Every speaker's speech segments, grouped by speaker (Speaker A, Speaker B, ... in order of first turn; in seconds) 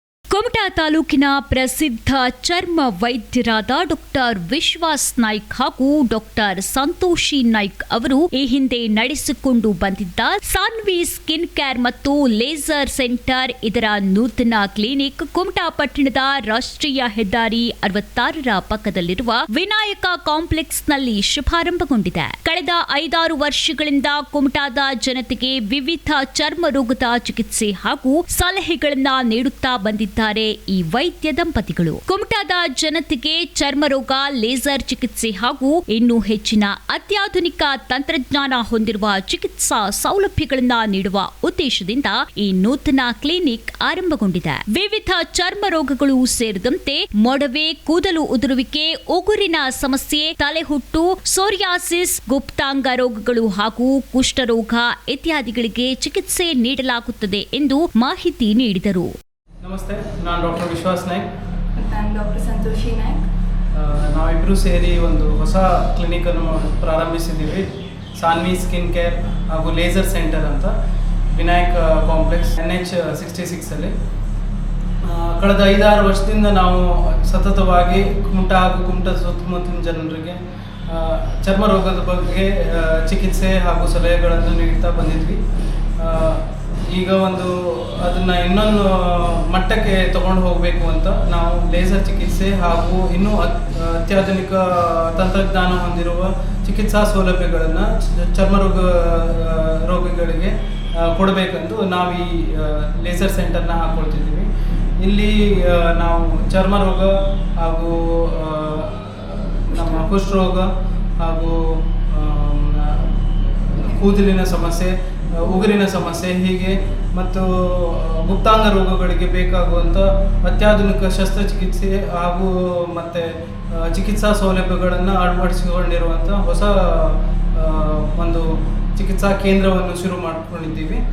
Speaker A: 0.3-59.1
Speaker B: 59.6-61.2, 63.8-67.7, 68.2-70.7, 71.3-73.9, 75.1-85.4, 86.0-86.4, 86.9-100.5, 101.0-104.5, 105.0-110.7, 111.2-111.6, 112.1-123.2, 123.8-128.4, 129.0-131.0
Speaker C: 61.8-63.2, 109.7-110.2, 113.8-114.3